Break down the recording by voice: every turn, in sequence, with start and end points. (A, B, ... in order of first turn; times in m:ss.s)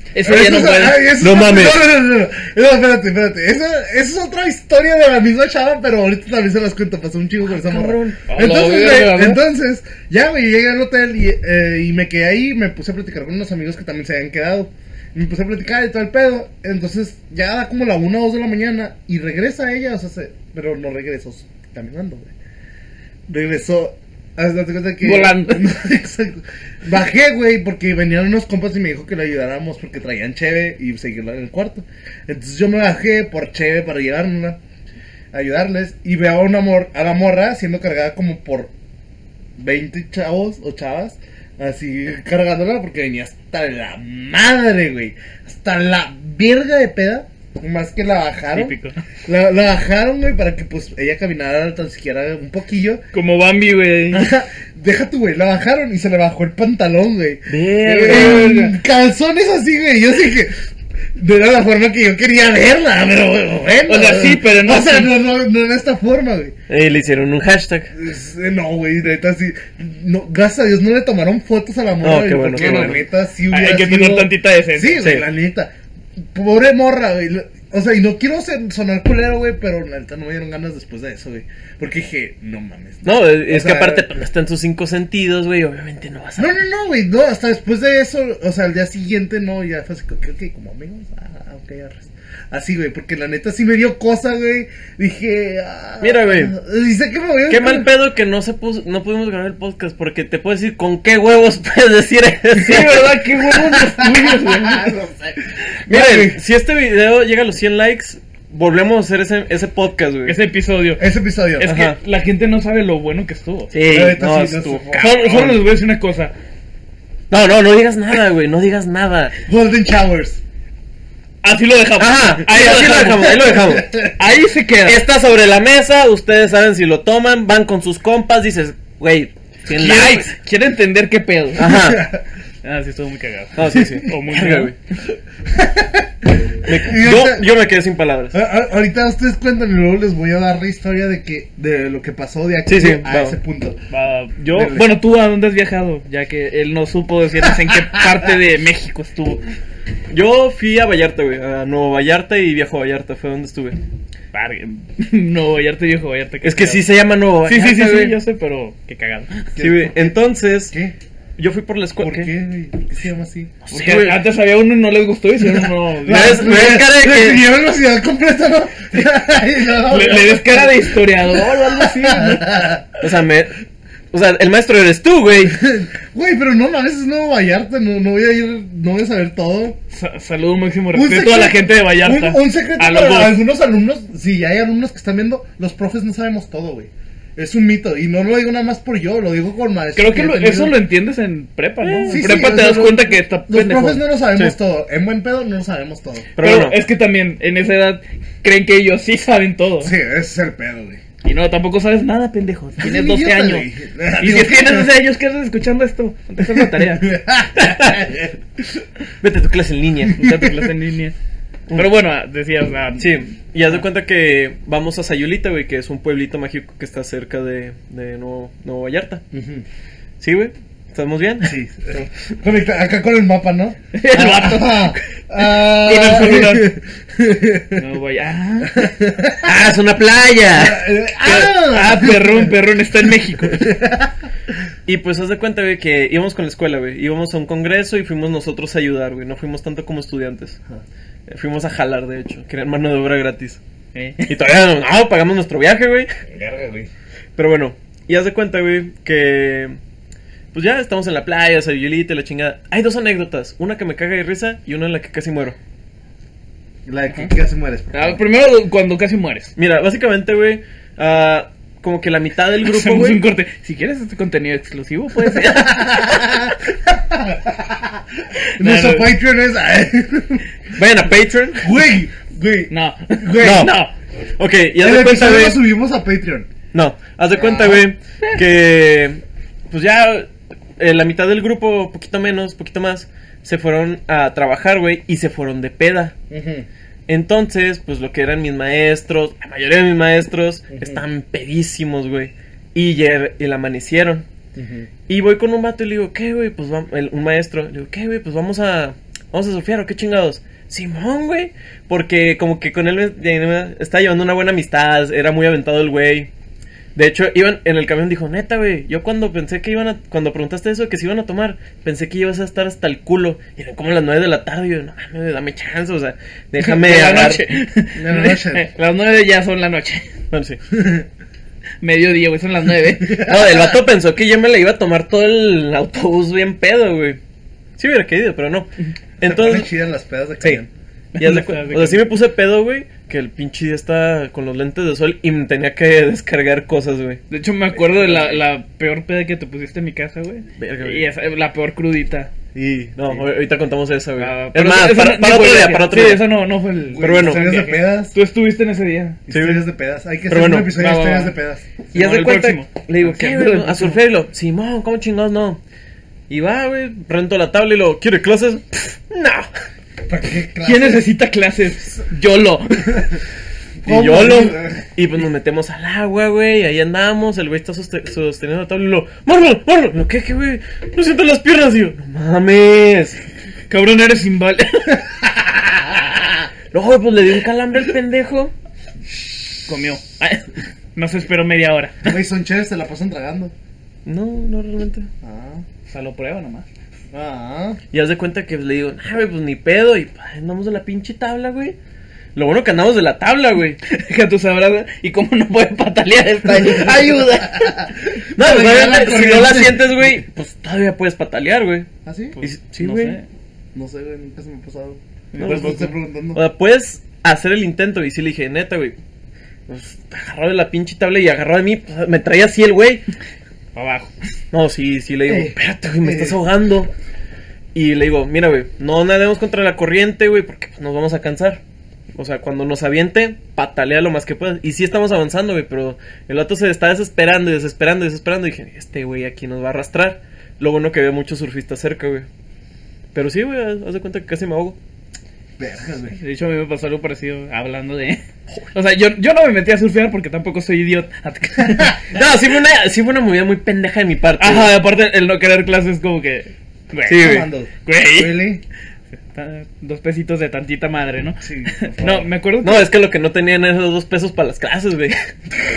0:00.1-0:01.1 A
0:00.2-0:22.3 B
0:01.2-0:01.8 C
0:07.4-0:08.3 C
0:08.3-0:09.4 A
0:23.3-0:34.6 B
0:25.0-0:25.7 A
0:35.3-0:38.7 B
0:39.6-0:48.7 B
0:48.5-0:49.0 A
0:49.3-0:53.0 B
0:53.1-0:54.3 A
0:54.1-1:00.5 B
0:57.5-0:58.7 C
0:57.6-0:58.7 A
1:01.2-1:06.6 B
1:03.9-1:05.2 A
1:06.7-1:07.9 C
1:07.9-1:24.1 B
1:12.0-1:13.0 C
1:12.5-1:15.1 A
1:15.0-1:15.3 C
1:23.0-1:26.6 C
1:26.4-1:37.9 B
1:36.0-1:36.5 C
1:37.5-1:43.2 C
1:42.6-1:44.9 A
1:43.5-1:46.4 B
1:45.9-1:50.4 C
1:50.2-1:53.7 A
1:51.0-1:51.7 B
1:51.6-1:52.0 C
1:53.7-1:55.0 C
1:53.8-1:55.6 B
1:55.0-1:56.3 A
1:57.3-1:59.3 C
1:59.5-2:00.4 B
2:01.4-2:03.4 A
2:02.0-2:03.9 C
2:03.2-2:04.1 B
2:04.2-2:05.0 A
2:04.8-2:10.3 C
2:09.7-2:11.8 A
2:11.6-2:12.1 C
2:11.6-2:12.2 B
2:12.6-2:14.7 A
2:13.6-2:14.8 C
2:15.5-2:17.6 B
2:16.6-2:18.4 C
2:18.3-2:23.8 B
2:22.7-2:23.4 C
2:23.9-2:29.4 A
2:24.5-2:25.0 B
2:30.1-2:33.8 C
2:34.3-2:36.8 A
2:36.4-2:38.2 C
2:37.5-2:39.6 A
2:39.6-2:41.0 B
2:39.6-2:40.8 C
2:41.4-2:42.3 C
2:42.0-2:43.6 B
2:43.6-2:44.2 C
2:43.7-2:46.6 A
2:46.0-2:52.9 B
2:46.1-2:47.4 C
2:49.8-2:52.6 A
2:53.0-2:53.6 C
2:54.1-2:55.6 C
2:55.5-2:59.8 B
2:59.9-3:03.4 A
3:00.9-3:10.8 B
3:10.0-3:14.0 A
3:11.8-3:12.3 C
3:12.1-3:16.3 B
3:16.4-3:16.8 C
3:16.4-3:20.0 A
3:19.8-3:21.0 B
3:21.2-3:27.2 A
3:22.8-3:24.9 B
3:26.5-3:28.8 B
3:27.6-3:28.0 C
3:29.2-3:30.2 C
3:30.2-3:31.1 A
3:30.2-3:30.7 B
3:31.7-3:33.2 A
3:33.0-3:39.2 C
3:39.3-3:39.6 B
3:40.2-3:41.6 C
3:41.4-3:47.8 B
3:43.9-3:46.7 A
3:47.8-3:48.9 A
3:48.6-3:49.6 B
3:49.4-3:50.8 C
3:50.5-3:52.6 B
3:51.2-3:53.8 A
3:53.4-3:54.3 B
3:54.9-4:00.6 C
4:01.3-4:03.6 C
4:03.9-4:04.3 A
4:04.3-4:06.1 C
4:06.3-4:06.9 B
4:07.4-4:09.8 C
4:10.5-4:15.6 C
4:16.9-4:18.2 B
4:17.9-4:19.5 A
4:19.6-4:23.2 C
4:22.6-4:26.0 A
4:25.4-4:30.4 B
4:28.4-4:29.1 A
4:30.7-4:31.7 C
4:31.6-4:33.7 B
4:32.7-4:33.9 A
4:33.4-4:33.8 C
4:34.4-4:35.6 C
4:34.8-4:36.5 B
4:36.7-4:46.2 C
4:37.3-4:37.9 B
4:46.3-4:46.7 B
4:47.1-4:54.2 C
4:50.7-4:51.0 B
4:54.6-4:54.9 B
4:55.1-5:06.3 C
5:07.0-5:17.4 C
5:16.6-5:20.1 A
5:18.0-5:18.7 B
5:20.3-5:20.6 C
5:20.7-5:21.1 B
5:21.8-5:23.3 A
5:23.0-5:23.8 B
5:23.1-5:27.2 C
5:27.8-5:29.7 C
5:29.2-5:30.7 B
5:31.2-5:32.1 A
5:31.2-5:37.2 C
5:37.3-5:42.3 A
5:40.6-5:41.1 C
5:42.6-5:47.5 C
5:44.2-5:49.2 A
5:46.9-5:48.2 B
5:49.3-5:51.7 B
5:49.3-5:49.6 C
5:50.3-5:50.8 C
5:50.7-5:51.4 A
5:51.9-5:54.0 A
5:51.9-5:55.6 C
5:56.3-5:59.5 C
6:00.1-6:01.1 B
6:00.6-6:03.1 A
6:03.8-6:04.8 B
6:03.9-6:13.2 C
6:13.7-6:15.0 A
6:16.7-6:18.5 C
6:19.7-6:22.1 A
6:22.0-6:23.5 B
6:24.0-6:25.1 C
6:25.2-6:25.6 B
6:25.9-6:26.7 A
6:27.1-6:27.8 B
6:27.9-6:31.8 C
6:32.4-6:33.8 C
6:33.8-6:37.7 A
6:36.5-6:40.1 B
6:38.4-6:41.9 C
6:42.0-6:42.4 B
6:42.4-6:43.3 A
6:42.4-6:43.2 C
6:43.7-6:46.4 B
6:45.3-6:45.9 A
6:45.4-6:49.0 C
6:49.7-6:53.0 C
6:53.8-6:54.1 A
6:54.5-6:56.9 C
6:55.3-6:56.4 B
6:57.7-7:01.6 C
7:02.2-7:12.3 C
7:13.1-7:14.8 C
7:15.6-7:16.2 B
7:16.1-7:22.1 A
7:22.1-7:24.7 C
7:24.4-7:28.5 A
7:27.1-7:27.5 C
7:27.2-7:28.6 B
7:29.3-7:32.9 A
7:31.4-7:32.3 B
7:32.6-7:35.2 C